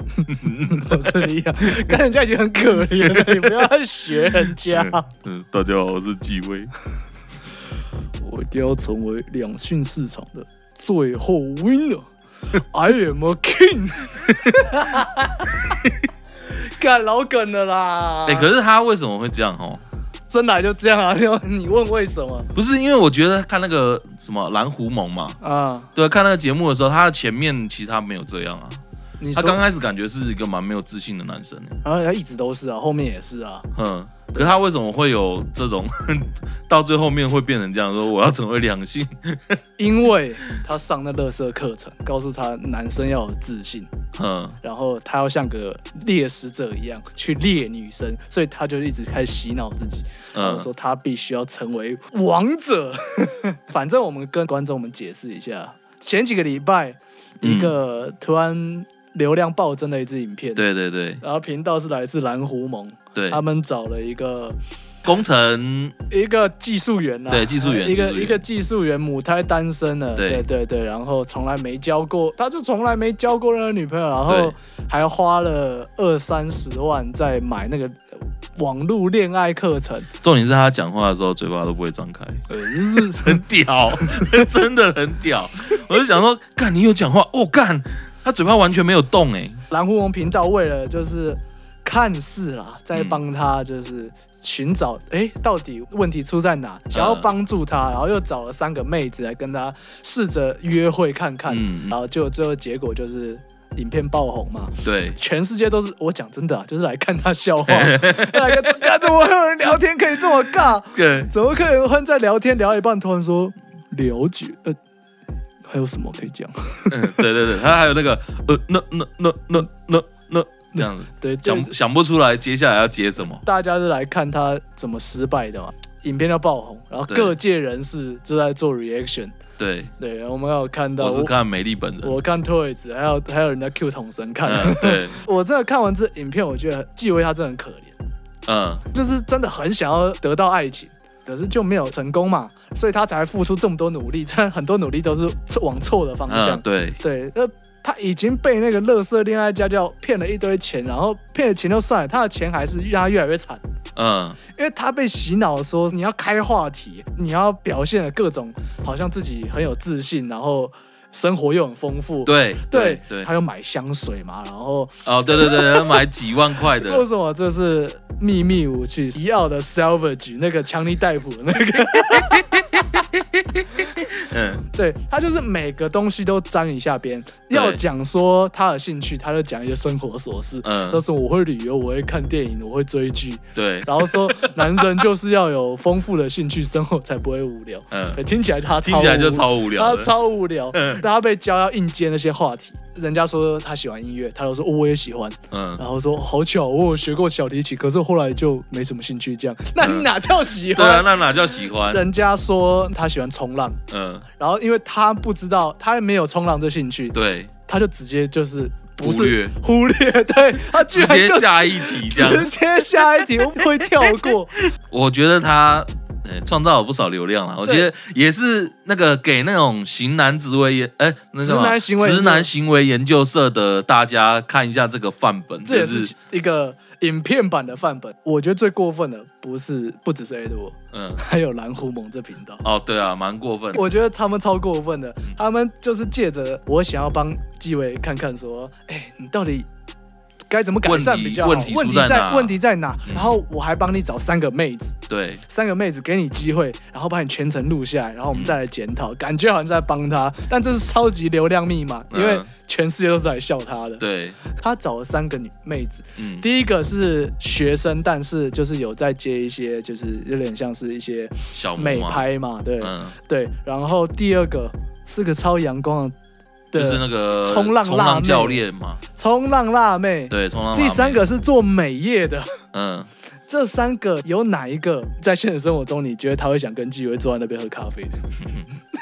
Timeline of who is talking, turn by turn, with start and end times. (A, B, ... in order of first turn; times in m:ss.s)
0:00.3-0:02.0 A
0:00.6-0:05.1 B
0:03.0-0:03.7 A
0:04.5-0:06.7 A
0:08.2-0:15.5 B
0:16.5-0:18.5 B
0:18.3-0:19.8 A
0:20.3-0:22.5 B
0:22.6-0:25.4 A
0:25.4-0:25.9 B
0:26.0-0:28.8 A
0:29.2-0:29.6 B
0:29.3-0:31.8 A
0:31.8-0:33.6 B
0:33.7-0:39.6 A
0:39.8-0:43.9 B
0:44.1-0:44.6 A
0:44.6-1:00.6 B
0:50.3-0:50.7 A
0:57.4-0:57.8 A
1:00.6-1:01.2 A
1:01.2-1:04.6 B
1:03.1-1:03.4 A
1:05.0-1:06.0 A
1:06.1-1:18.0 B
1:07.3-1:08.4 A
1:10.2-1:10.4 A
1:14.3-1:14.6 A
1:18.6-1:20.1 B
1:20.2-1:29.6 A
1:22.5-1:23.4 B
1:24.0-1:24.3 B
1:29.7-1:54.8 B
1:32.9-1:33.2 A
1:36.9-1:37.3 A
1:41.5-1:41.9 A
1:44.8-1:45.2 A
1:47.6-1:49.0 A
1:50.9-1:51.3 A
1:55.6-1:57.2 B
1:56.9-2:03.4 A
2:00.7-2:01.7 B
2:03.4-2:09.4 B
2:07.1-2:07.4 A
2:09.6-2:09.9 A
2:10.0-2:11.3 B
2:11.0-2:12.2 A
2:12.0-2:18.0 B
2:14.4-2:15.2 A
2:18.5-2:18.8 A
2:18.9-2:33.6 B
2:26.3-2:27.0 A
2:34.0-2:34.4 A
2:34.5-2:46.0 B
2:42.3-2:43.3 A
2:45.0-2:47.0 A
2:46.7-2:52.8 B
2:52.3-2:54.6 A
2:54.7-3:21.1 B
2:57.5-2:57.8 A
3:00.6-3:01.0 A
3:03.6-3:04.8 A
3:07.9-3:08.2 A
3:08.8-3:10.1 A
3:10.7-3:11.0 A
3:15.5-3:15.8 A
3:19.8-3:20.1 A
3:20.7-3:22.0 A
3:21.9-3:23.8 B
3:23.9-3:24.3 A
3:24.4-3:27.2 B
3:27.1-3:27.5 A
3:27.7-3:34.6 B
3:29.0-3:29.5 A
3:30.7-3:32.5 A
3:33.6-3:34.1 A
3:34.9-3:46.1 A
3:41.4-3:42.5 B
3:45.6-3:52.6 B
3:50.9-3:51.2 A
3:52.6-3:53.8 A
3:53.7-3:59.7 B
4:00.5-4:05.0 B
4:00.8-4:02.5 A
4:03.1-4:03.4 A
4:05.1-4:05.4 A
4:05.5-4:26.2 B
4:12.1-4:12.5 A
4:14.0-4:14.4 A
4:16.2-4:16.5 A
4:21.5-4:22.2 A
4:22.8-4:23.2 A
4:26.7-4:28.6 B
4:26.7-4:29.0 A
4:29.2-4:32.6 B
4:30.3-4:31.2 A
4:32.7-4:33.1 A
4:33.5-4:38.2 B